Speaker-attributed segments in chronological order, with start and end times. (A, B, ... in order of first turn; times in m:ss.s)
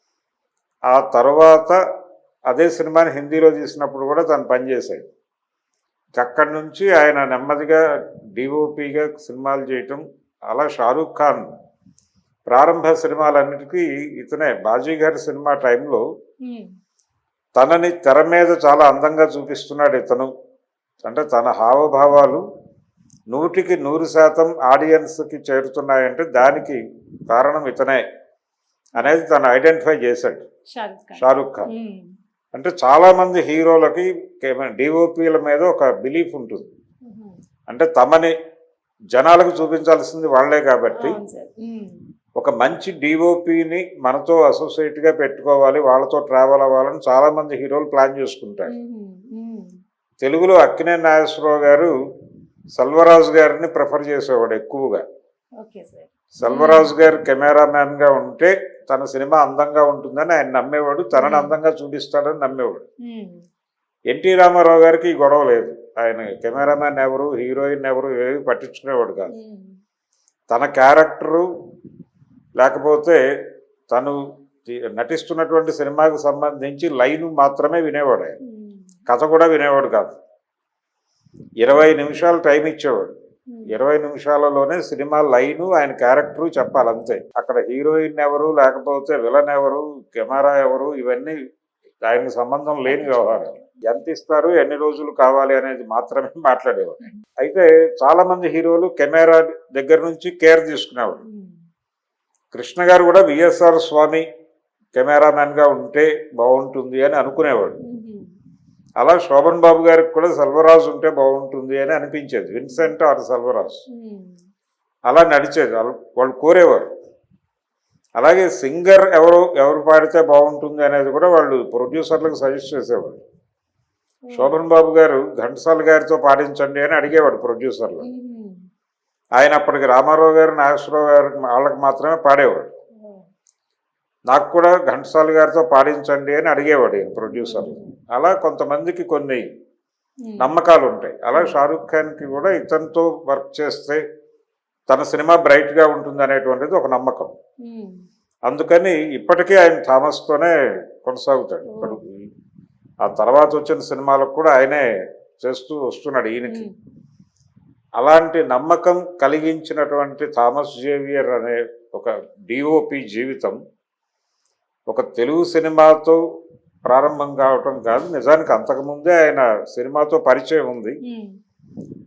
0:00.9-0:01.8 A
0:02.5-0:05.1 A
0:06.2-0:07.8 A
0:08.4-0:11.5 A
0:12.5-0:16.0 A
0:16.4-0:16.7 B
0:17.6-0:20.3 A
0:21.0-0:22.4 A
0:23.3-0:26.8 A
0:27.3-0:28.0 A
0:29.0-0:30.4 A
0:30.7-0:32.1 B
0:31.2-0:31.7 A
0:32.5-0:36.7 A
0:37.0-0:37.4 B
0:37.7-0:38.3 A
0:39.1-0:41.2 A
0:41.0-0:42.0 B
0:42.4-0:48.7 A
0:48.7-0:49.8 B
0:50.2-0:51.9 A
0:52.8-0:55.0 A
0:55.6-0:56.9 B
0:56.4-1:02.8 A
1:01.2-1:01.6 B
1:03.0-1:03.4 B
1:04.1-1:09.3 A
1:09.3-1:09.8 B
1:10.5-1:11.5 A
1:12.6-1:13.2 A
1:13.9-1:14.2 A
1:14.7-1:18.4 A
1:18.4-1:18.9 B
1:19.1-1:20.2 A
1:21.6-1:23.1 A
1:23.7-1:31.3 A
1:32.1-1:41.2 A
1:32.9-1:33.8 B
1:41.2-1:41.6 B
1:42.5-1:44.2 A
1:45.0-1:47.8 A
1:47.8-1:48.3 B
1:49.0-1:53.8 A
1:53.9-1:54.4 B
1:55.1-1:56.9 A
1:58.2-2:03.2 A
2:04.3-2:04.5 B
2:04.3-2:08.0 A
2:08.0-2:08.7 B
2:09.4-2:12.7 A
2:13.0-2:13.3 B
2:14.3-2:19.4 A
2:17.3-2:17.9 B
2:20.2-2:20.5 B
2:20.4-2:24.0 A
2:24.9-2:27.3 A
2:27.6-2:28.1 B
2:28.5-2:30.5 A
2:31.0-2:32.1 A
2:31.7-2:32.0 B
2:33.0-2:34.8 A
2:35.4-2:36.6 A
2:38.0-2:43.6 A
2:44.9-2:46.2 A
2:46.9-2:51.0 A
2:51.1-2:51.4 B